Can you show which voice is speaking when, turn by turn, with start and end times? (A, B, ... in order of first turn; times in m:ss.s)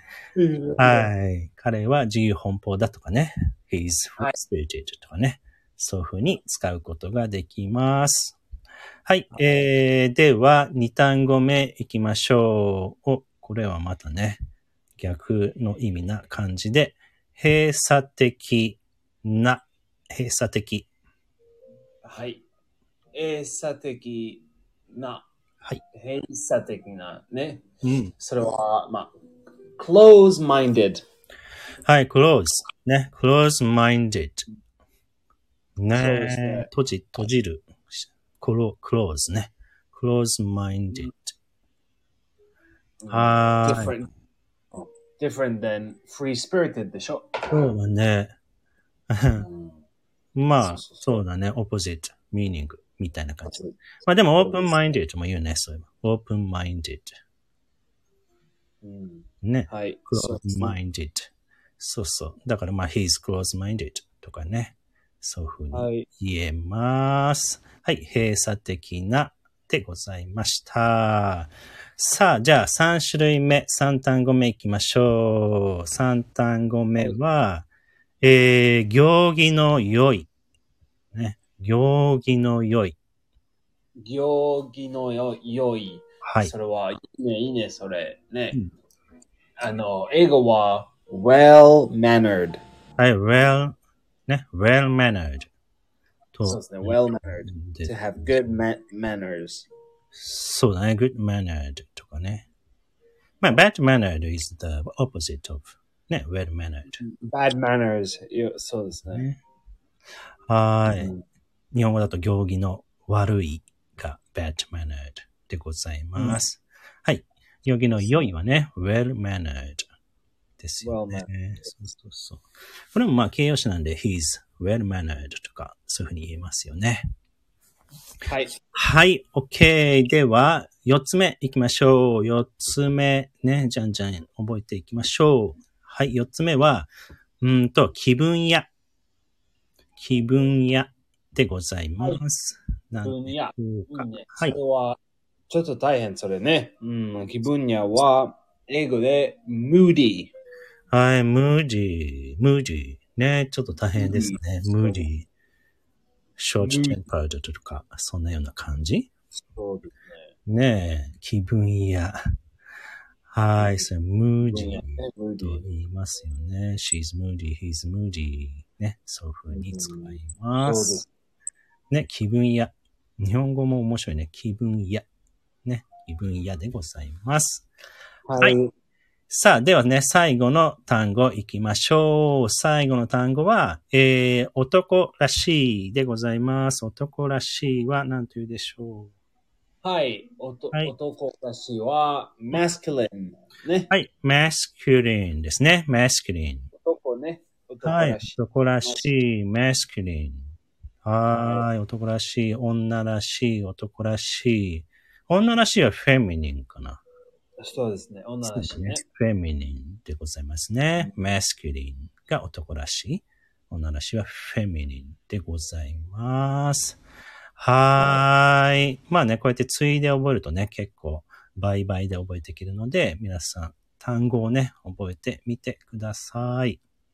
0:00.4-0:01.1 A
0:00.8-0:08.4 B
0:09.0-0:14.4 B
0:15.0-0:20.9 B
0:22.0-0:22.4 A
0:23.1-0:25.3 A
0:25.9-0:27.6 A
0:27.8-0:28.1 B
0:28.2-0:29.1 A
0:29.8-0:31.0 A
0:31.8-0:34.5 B
0:35.8-0:41.3 B
0:35.9-0:36.7 A
0:43.0-0:44.1 A
0:43.1-0:44.0 B
0:44.8-0:47.4 A
0:47.5-0:48.3 B
0:49.1-0:49.4 B
0:49.4-0:49.8 A
0:50.4-0:57.1 B
0:50.6-0:51.2 A
0:53.4-0:54.9 A
0:58.8-1:00.8 A
0:59.4-1:17.7 B
1:05.7-1:06.1 A
1:18.2-1:20.3 B
1:21.1-1:23.0 B
1:24.0-1:28.6 A
1:26.2-1:26.5 B
1:29.6-1:32.6 A
1:33.0-1:35.5 B
1:36.3-1:38.6 B
1:36.4-1:39.7 A
1:40.1-1:42.4 B
1:43.4-1:47.0 B
1:47.0-1:49.3 A
1:49.1-1:49.3 B
1:50.5-1:51.1 B
1:50.9-1:51.2 A
1:51.7-1:59.8 B
1:58.0-1:58.3 A
2:00.6-2:07.0 B
2:00.8-2:01.3 A
2:08.2-2:08.6 A
2:08.7-2:16.9 B
2:17.4-2:18.7 B
2:20.0-2:24.6 B
2:23.0-2:25.0 A
2:25.5-2:30.3 A
2:30.9-2:35.3 B
2:33.9-2:35.1 A
2:36.4-2:39.1 B
2:36.6-2:37.0 A
2:39.5-2:40.3 A
2:40.5-2:42.2 B
2:43.3-2:51.0 B
2:43.6-2:43.9 A
2:44.4-2:45.6 A
2:49.5-2:51.1 A
2:51.9-2:55.0 B
2:55.6-2:57.7 B
2:58.3-2:58.7 A
2:59.3-3:09.1 B
3:09.8-3:13.9 A
3:13.9-3:16.7 B
3:16.7-3:19.0 A
3:17.8-3:20.4 B
3:21.0-3:27.0 B
3:21.3-3:21.6 A
3:27.6-3:29.0 A
3:28.4-3:37.0 B
3:37.6-3:46.8 B
3:38.0-3:38.2 A